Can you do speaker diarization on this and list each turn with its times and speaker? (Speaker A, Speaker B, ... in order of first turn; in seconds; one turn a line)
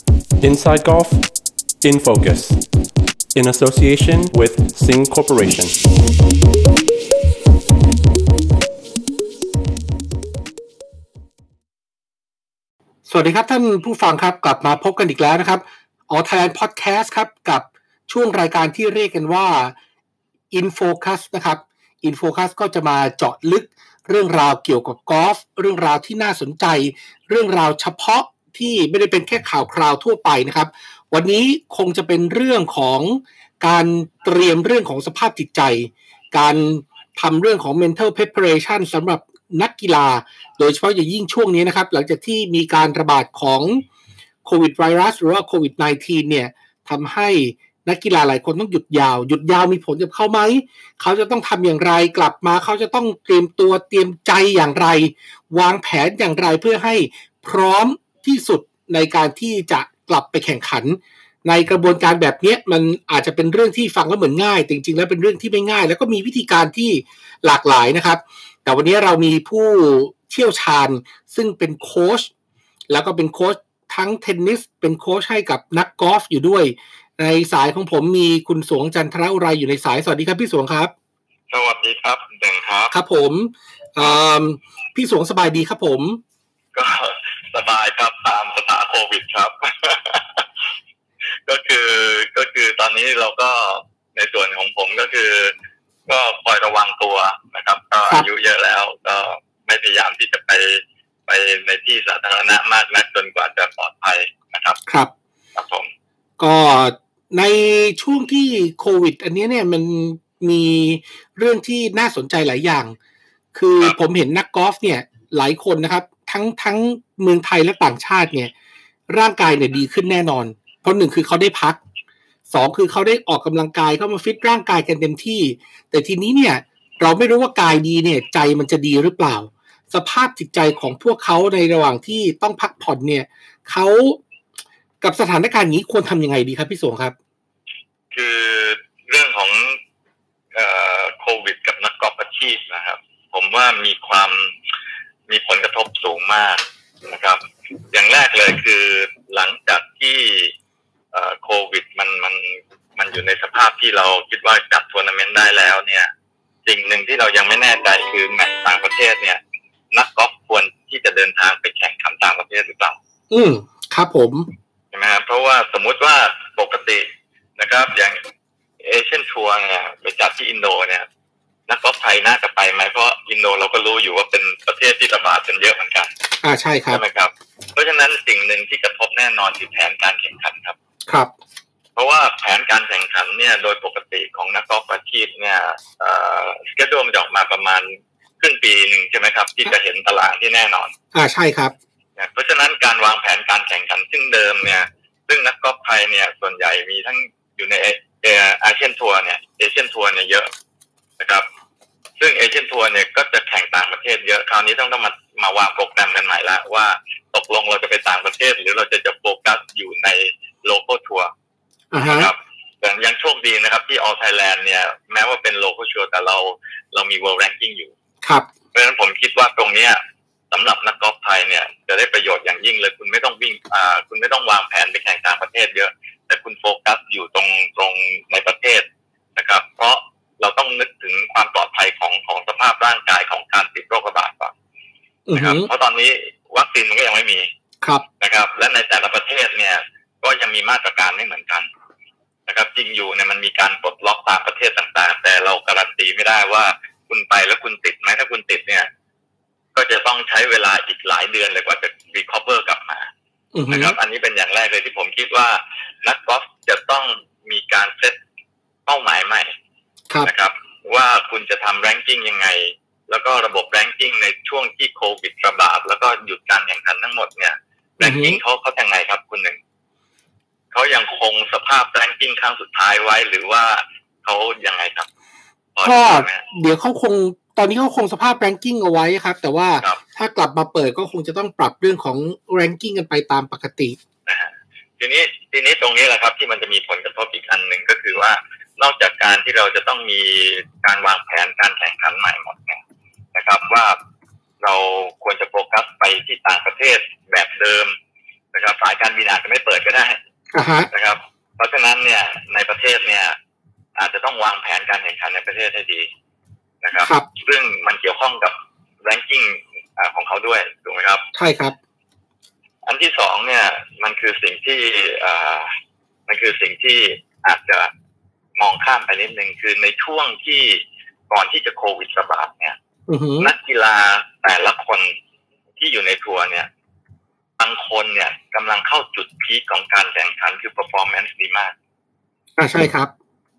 Speaker A: 0.4-1.3
Speaker A: 1.8-2.6
Speaker A: 3.3-5.8
Speaker B: 13.1-19.7
Speaker B: 20.5-43.8
Speaker B: 44.4-72.3
Speaker B: 72.9-80.9
Speaker C: 81.5-83.0
Speaker B: 82.9-86.2
Speaker C: 86.7-90.5
Speaker C: 91.5-95.5
Speaker C: 96.1-104.8
Speaker B: 104.8-105.1
Speaker C: 105.5-105.9
Speaker B: 106.4-113.0
Speaker B: 113.5-118.5
Speaker B: 119.1-121.8
Speaker B: 122.5-134.2
Speaker B: 135.0-137.1
Speaker C: 138.1-139.8
Speaker C: 140.5-144.5
Speaker C: 145.3-150.5
Speaker C: 151.1-156.1
Speaker C: 156.7-159.4
Speaker C: 159.9-163.0
Speaker B: 163.3-164.5
Speaker C: 164.9-168.2
Speaker C: 168.8-171.1
Speaker C: 171.7-176.1
Speaker B: 176.4-177.0
Speaker C: 176.9-180.8
Speaker C: 181.9-190.9
Speaker B: 191.1-191.7
Speaker C: 192.2-200.5
Speaker C: 201.2-201.4
Speaker C: 202.2-211.3
Speaker B: 211.9-212.3
Speaker C: 212.0-217.9
Speaker C: 218.7-220.0
Speaker C: 220.5-228.8
Speaker C: 229.4-234.5
Speaker B: 235.3-235.7
Speaker C: 235.3-237.5
Speaker C: 238.2-241.7
Speaker C: 242.5-248.9
Speaker C: 249.7-253.1
Speaker B: 253.5-254.0
Speaker C: 253.7-258.2
Speaker C: 258.9-259.5
Speaker C: 260.2-269.6
Speaker B: 268.0-268.4
Speaker C: 270.7-275.1
Speaker C: 275.7-276.4
Speaker B: 275.8-284.0
Speaker C: 284.3-292.8
Speaker C: 293.3-294.0
Speaker C: 294.6-297.9
Speaker C: 298.5-300.2
Speaker B: 300.5-300.9
Speaker C: 300.9-303.4
Speaker C: 303.9-306.1
Speaker C: 306.8-311.2
Speaker B: 307.0-307.3
Speaker B: 311.3-311.8
Speaker C: 312.9-315.7
Speaker C: 316.3-317.9
Speaker C: 318.6-322.8
Speaker B: 323.1-323.5
Speaker C: 323.4-325.1
Speaker C: 325.8-326.7
Speaker C: 327.6-331.7
Speaker B: 332.6-333.1